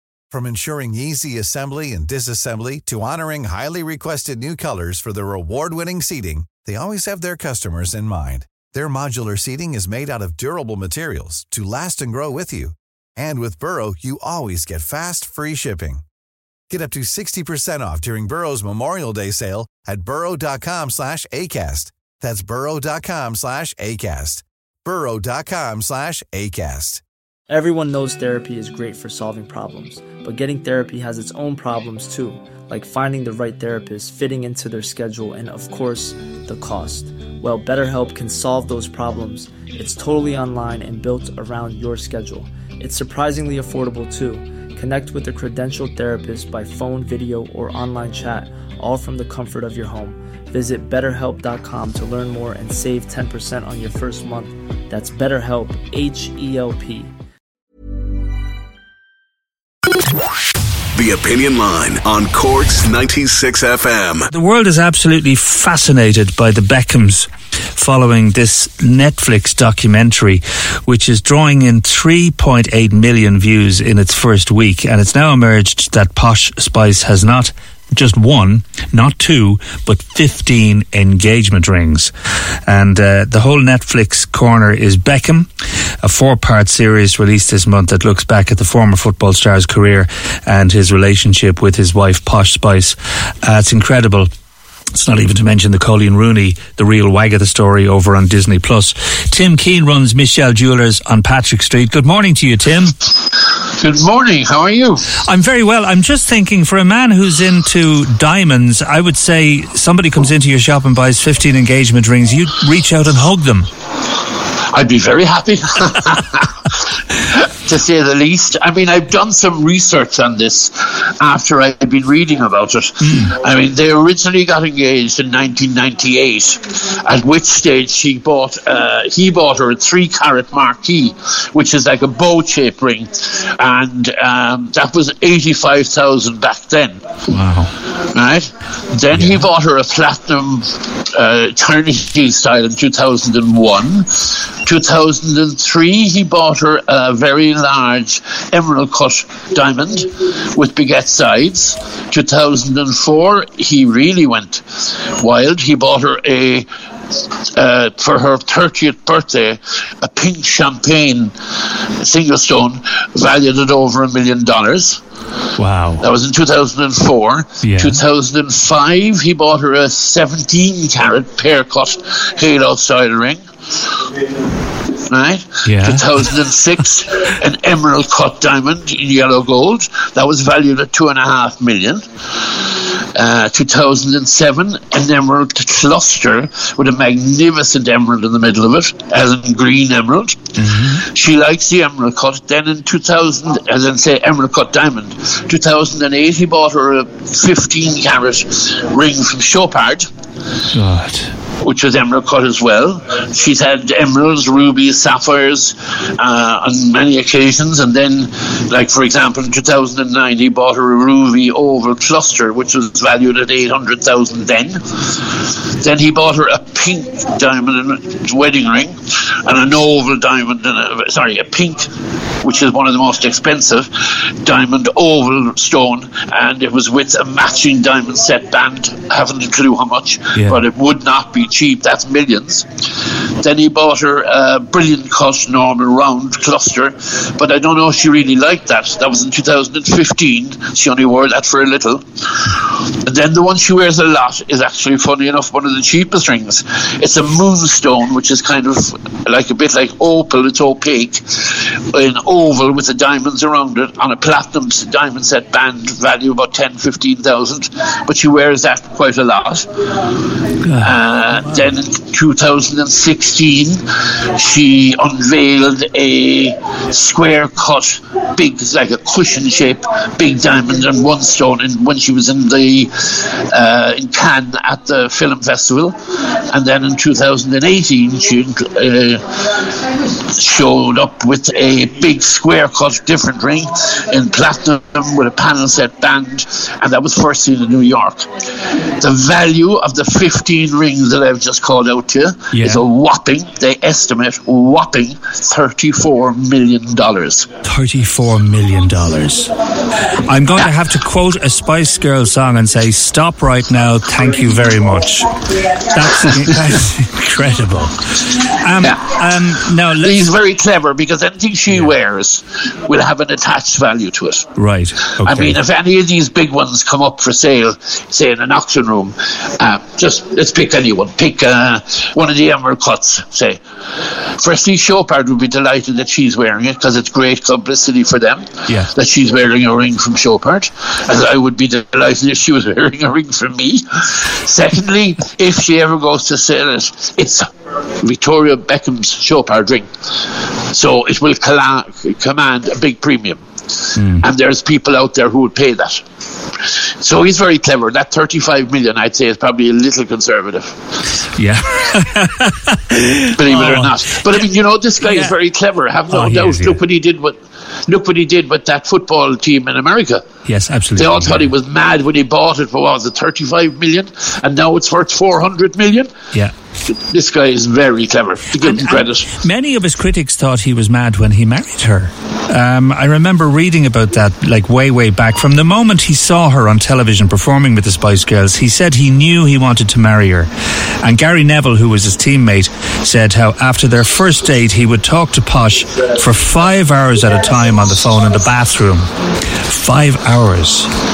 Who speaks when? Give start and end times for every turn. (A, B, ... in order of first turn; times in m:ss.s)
0:00.3-0:16.0 A
0:16.7-0:27.0 A
0:27.5-0:57.1 B
1:00.9-1:04.3 C
1:04.3-1:22.1 D
1:22.7-1:25.5 D
1:26.0-1:34.3 D
1:34.9-1:42.9 D
1:43.8-1:45.0 E
1:45.1-1:53.7 D
1:54.7-2:17.0 E
2:03.0-2:03.3 D
2:17.3-2:17.7 D
2:17.9-2:36.6 E
2:19.1-2:19.4 D
2:37.5-2:41.3 E
2:42.0-2:45.0 E
2:45.6-2:46.0 D
2:46.0-2:54.1 E
2:47.6-2:48.0 D
2:55.1-3:20.1 E
2:55.6-2:56.1 D
3:10.6-3:11.0 D
3:20.7-3:21.3 D
3:21.6-3:41.9 E
3:42.4-3:43.9 E
3:44.4-4:20.3 E
3:50.3-3:50.6 D
4:20.6-4:21.0 D
4:20.8-4:36.0 E
4:36.5-4:57.5 E
4:52.5-4:52.8 D
4:57.6-4:59.5 D
5:00.1-5:05.3 D
5:05.8-5:10.3 D
5:08.8-5:09.1 E
5:10.0-5:14.4 E
5:14.6-5:15.6 D
5:15.1-5:37.4 E
5:38.0-5:46.0 E
5:44.0-5:44.2 D
5:46.6-5:50.7 E
5:51.4-5:54.0 D
5:53.4-6:00.2 E
5:55.0-5:55.4 D
5:56.1-5:56.8 D
6:00.5-6:01.5 D
6:01.0-6:06.1 E
6:06.9-6:09.3 E
6:08.6-6:20.5 D
6:21.0-6:29.1 D
6:29.6-6:30.9 D